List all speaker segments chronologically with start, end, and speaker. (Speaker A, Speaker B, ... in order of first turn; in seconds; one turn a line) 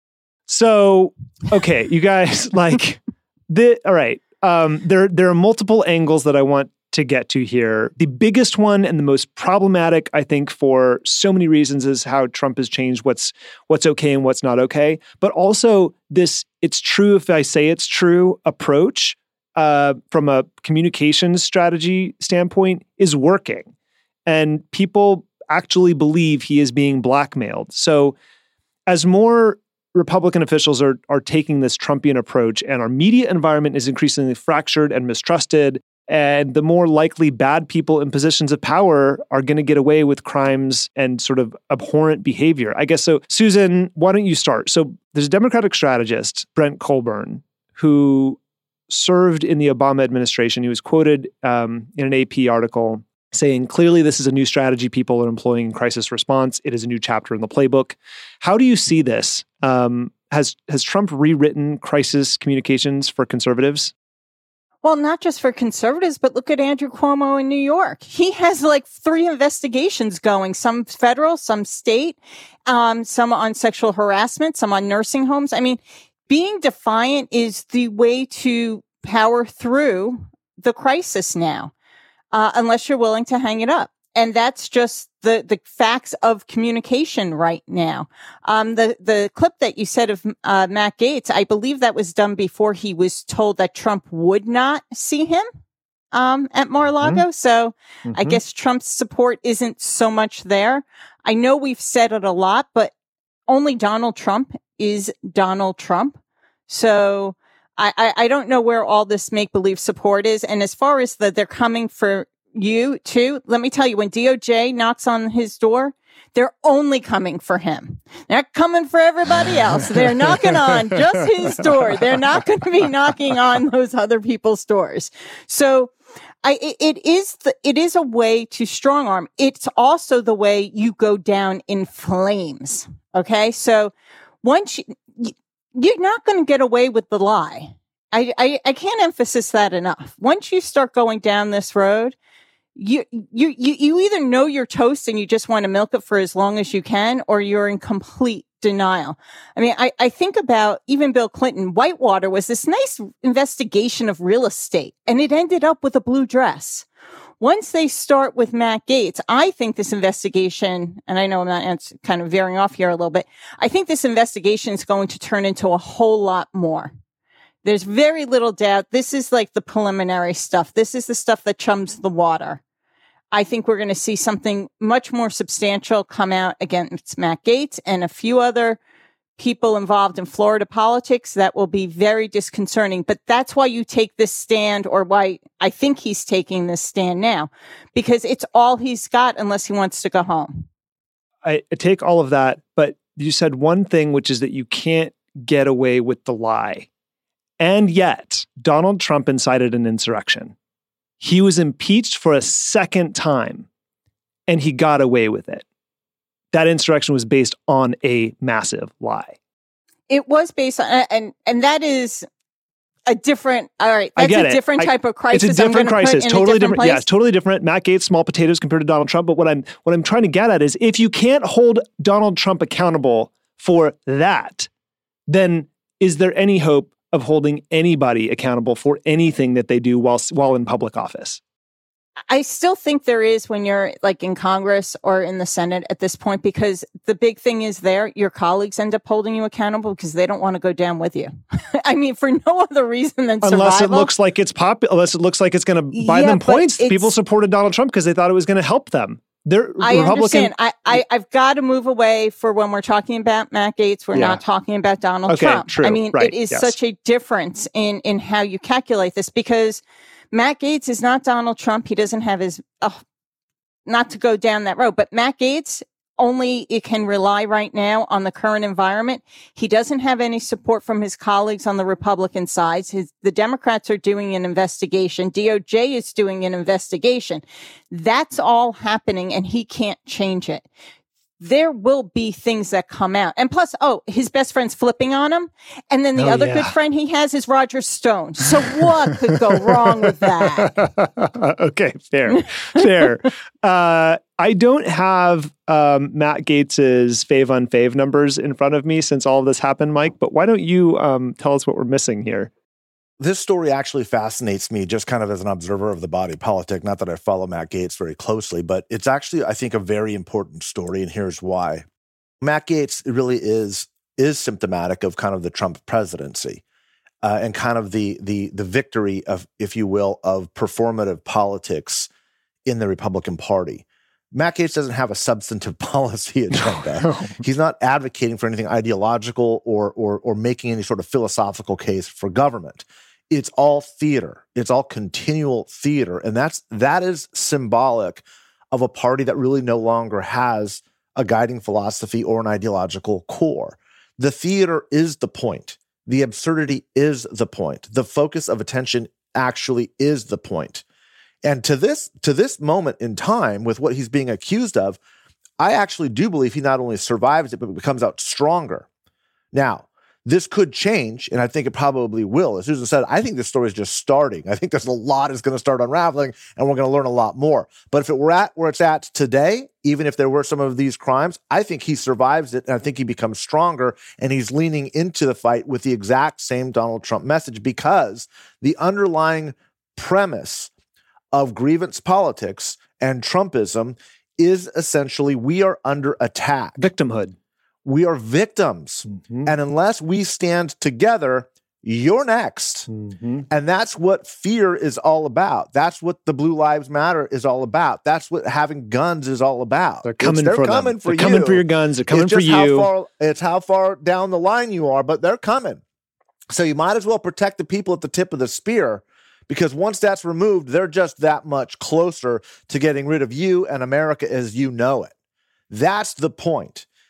Speaker A: 0.5-23.7
Speaker A: 24.3-28.1
Speaker A: 28.9-63.9
Speaker B: 64.8-81.7
Speaker B: 82.3-95.5
Speaker B: 96.1-102.9
Speaker A: 98.1-98.4
Speaker B: 103.5-106.2
Speaker B: 106.7-125.9
Speaker A: 120.3-122.4
Speaker B: 126.4-133.9
Speaker B: 134.4-142.2
Speaker B: 142.8-156.9
Speaker B: 157.4-166.9
Speaker B: 167.6-172.6
Speaker B: 173.3-178.8
Speaker B: 179.4-190.7
Speaker A: 191.4-196.9
Speaker A: 197.6-200.6
Speaker A: 201.2-203.7
Speaker A: 204.5-205.6
Speaker A: 206.5-209.4
Speaker B: 210.1-212.2
Speaker B: 213.1-217.1
Speaker A: 214.2-224.7
Speaker A: 225.3-231.4
Speaker B: 232.3-244.1
Speaker A: 243.4-251.0
Speaker B: 245.9-247.1
Speaker B: 249.8-263.0
Speaker A: 254.1-254.4
Speaker A: 255.3-256.7
Speaker B: 263.9-280.7
Speaker B: 281.4-290.7
Speaker A: 286.2-286.7
Speaker A: 288.7-302.5
Speaker B: 292.3-293.1
Speaker C: 303.2-311.9
Speaker C: 312.4-316.6
Speaker C: 317.2-322.1
Speaker C: 322.6-350.8
Speaker A: 326.5-327.4
Speaker C: 351.4-355.0
Speaker C: 355.6-358.9
Speaker C: 359.5-380.7
Speaker C: 381.3-386.9
Speaker A: 386.8-387.4
Speaker C: 387.9-392.9
Speaker A: 389.1-389.5
Speaker A: 392.9-393.5
Speaker C: 393.5-405.8
Speaker A: 400.0-402.9
Speaker C: 406.5-415.1
Speaker C: 415.7-416.9